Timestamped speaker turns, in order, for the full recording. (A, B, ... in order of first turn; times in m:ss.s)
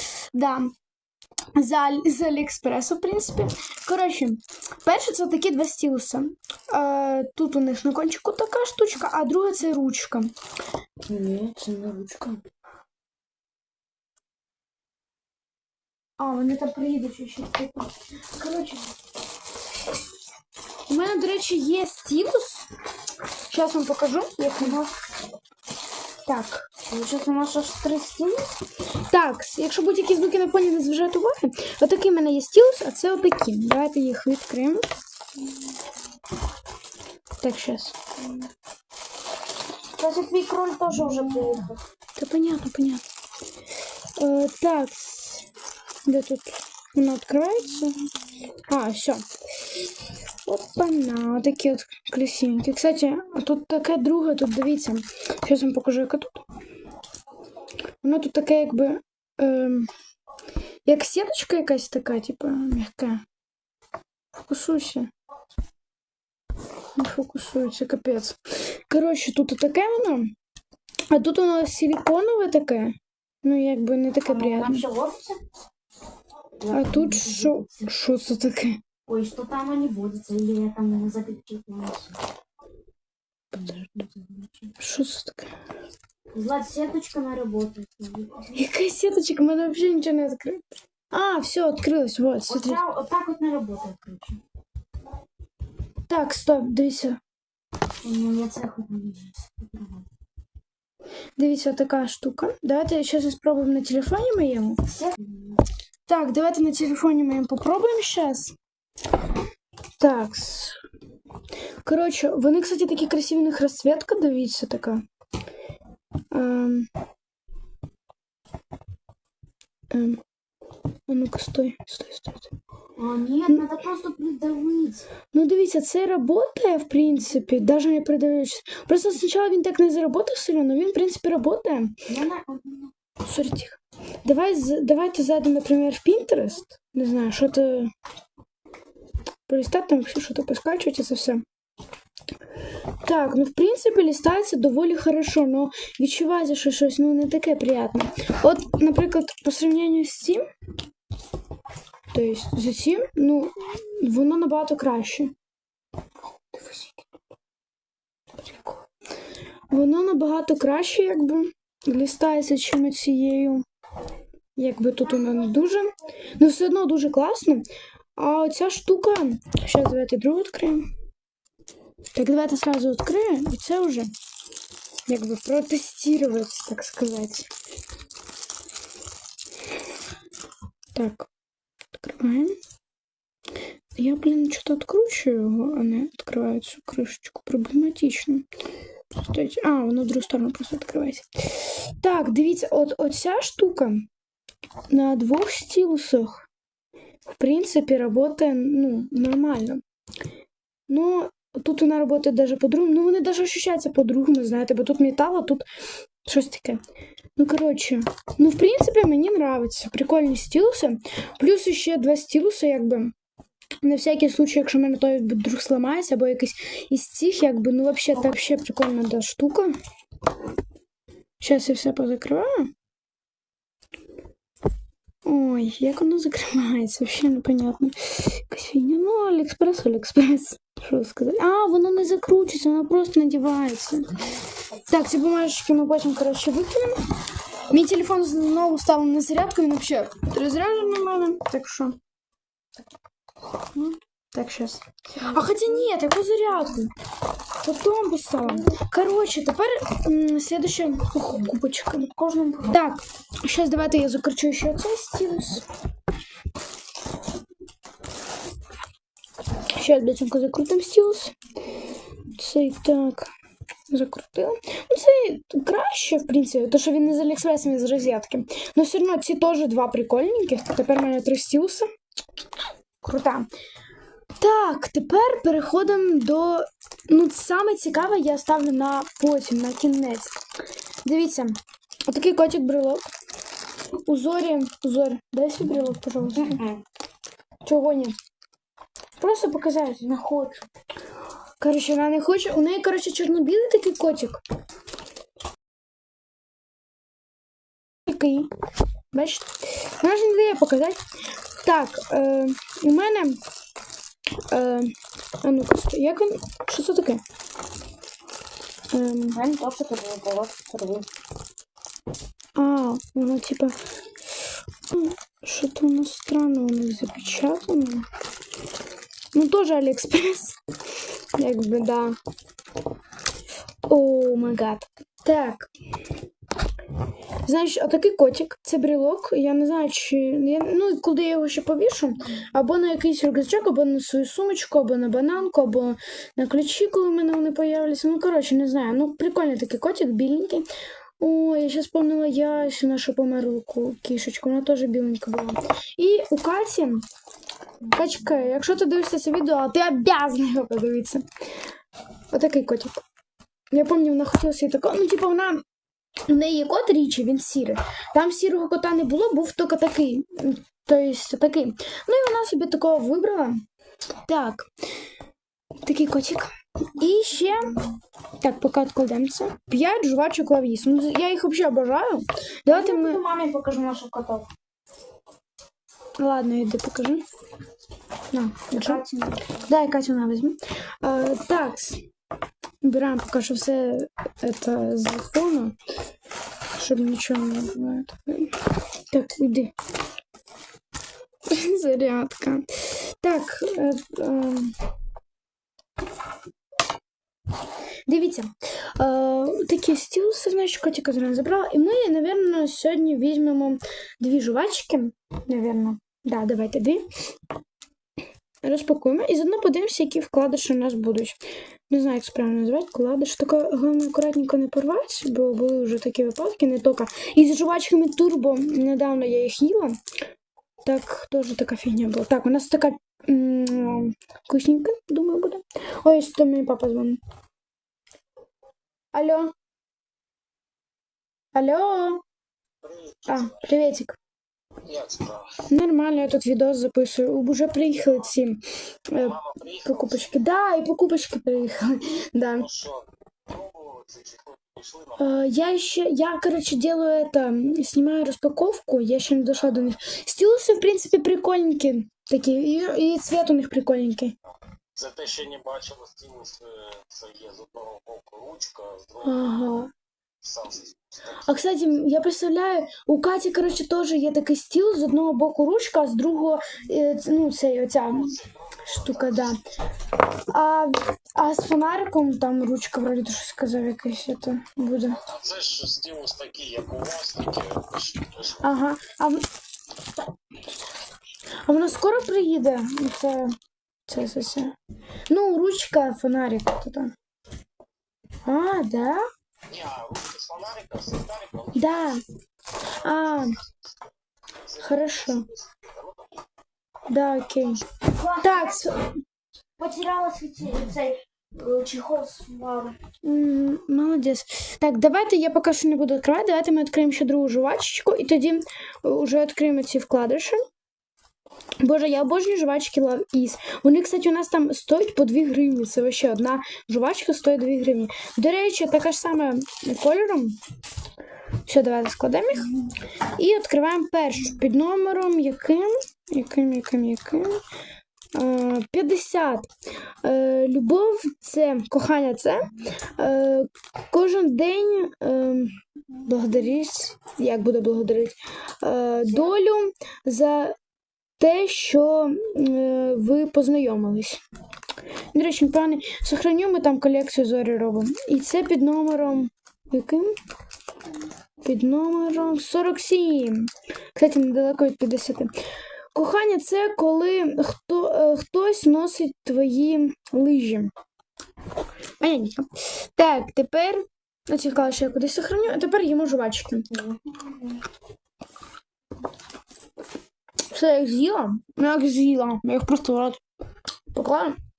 0:00.3-0:00.7 A
0:01.5-0:10.3 A
0:11.1-0:12.4 B
0:16.2-0:18.8 A
0:20.9-0:22.6 A
0:23.5-0:24.9 A
0:26.2-0:26.7 A
0:26.8-0:28.5 B
0:29.0-0:34.8 A
0:37.4-0:38.0 A
0:40.0-0:41.8 B
0:42.2-0:43.0 A
0:44.2-0:45.4 A
0:46.0-0:48.0 A
0:48.7-0:49.2 A
0:50.4-0:56.4 A
0:58.0-0:59.9 A
1:00.8-1:03.2 A
1:04.4-1:05.1 A
1:06.9-1:10.3 A
1:11.1-1:14.8 A
1:14.2-1:15.4 B
1:16.6-1:17.9 B
1:16.7-1:18.8 A
1:19.1-1:22.2 B
1:23.5-1:24.5 B
1:24.8-1:25.5 A
1:26.3-1:28.5 B
1:28.5-1:32.8 A
1:32.5-1:34.4 B
1:36.0-1:37.2 A
1:38.0-1:40.0 B
1:41.4-1:44.8 A
1:44.9-1:45.6 B
1:46.0-1:48.5 A
1:50.0-1:50.8 A
1:51.8-1:55.0 A
1:56.3-1:56.9 A
1:59.9-2:00.2 A
2:01.1-2:02.5 A
2:03.0-2:05.1 B
2:05.3-2:12.0 A
2:12.1-2:12.9 B
2:13.2-2:17.9 A
2:19.5-2:21.4 A
2:23.0-2:30.4 A
2:32.1-2:35.3 A
2:36.5-2:36.9 A
2:38.4-2:38.8 A
2:39.7-2:43.6 A
2:44.6-2:50.8 A
2:52.1-2:54.1 A
2:55.1-2:57.5 A
3:00.9-3:01.3 A
3:01.9-3:02.6 A
3:04.0-3:08.4 A
3:09.2-3:14.1 A
3:14.9-3:16.5 A
3:17.3-3:19.8 A
3:20.9-3:25.6 A
3:26.2-3:26.8 A
3:27.4-3:33.1 A
3:33.8-3:39.7 A
3:41.4-3:42.7 A
3:45.2-3:54.2 A
3:54.8-3:57.1 A
3:57.7-4:02.0 A
4:03.7-4:06.9 A
4:07.6-4:12.1 A
4:12.1-4:12.8 B
4:12.7-4:15.6 A
4:19.7-4:21.3 A
4:22.3-4:23.3 A
4:23.9-4:31.9 A
4:33.0-4:33.5 A
4:34.4-4:40.3 A
4:41.0-4:41.6 A
4:42.1-4:43.1 A
4:44.0-4:46.6 A
4:46.4-4:46.8 B
4:47.6-4:48.1 A
4:49.2-4:50.0 A
4:50.0-4:50.6 B
4:51.6-4:54.4 A
4:58.0-4:58.5 A
4:59.1-5:01.0 A
5:01.6-5:03.4 A
5:04.5-5:07.2 A
5:08.9-5:09.4 A
5:09.3-5:11.1 B
5:12.6-5:13.8 A
5:14.9-5:18.0 A
5:19.3-5:20.6 A
5:21.3-5:22.2 A
5:23.9-5:25.7 A
5:27.4-5:40.7 A
5:41.2-5:47.0 A
5:47.8-5:51.2 A
5:52.3-5:53.0 A
5:53.7-5:55.6 A
5:56.3-6:03.6 A
6:04.3-6:04.7 A
6:05.8-6:07.8 A
6:08.4-6:13.2 A
6:12.7-6:14.5 B
6:16.2-6:17.2 A
6:18.3-6:19.0 A
6:18.7-6:19.6 B
6:19.6-6:22.0 A
6:22.8-6:25.7 A
6:26.7-6:29.7 A
6:31.5-6:34.8 A
6:38.1-6:47.0 A
6:48.6-6:51.4 A
6:51.9-7:00.0 A
7:00.8-7:07.2 A
7:09.1-7:09.5 A
7:11.5-7:12.2 A
7:12.8-7:13.2 C
7:13.2-7:14.2 A
7:14.8-7:15.6 C
7:15.7-7:22.8 A
7:19.3-7:19.9 C
7:22.8-7:25.2 C
7:25.2-7:34.3 A
7:34.9-7:39.2 C
7:39.2-7:39.9 A
7:40.4-7:41.4 C
7:41.4-7:49.6 A
7:48.3-7:48.9 C
7:50.4-7:55.2 A
7:55.2-7:58.6 C
7:58.6-7:59.4 A
8:01.6-8:03.5 A
8:04.1-8:04.8 A
8:05.3-8:07.1 A
8:08.4-8:09.2 A
8:09.7-8:11.9 C
8:11.7-8:12.2 A
8:12.9-8:13.6 A
8:14.8-8:15.5 A
8:14.9-8:16.1 C
8:17.1-8:19.1 A
8:18.0-8:18.9 B
8:19.8-8:23.0 B
8:23.2-8:30.6 A
8:31.8-8:40.6 A
8:41.6-8:42.8 A
8:43.3-8:47.6 A
8:48.3-8:49.7 A
8:50.2-9:00.8 A
9:01.4-9:04.4 A
9:05.3-9:10.3 A
9:11.6-9:15.5 A
9:16.1-9:20.9 A
9:22.2-9:27.0 A
9:30.7-9:33.4 A
9:34.1-9:34.6 A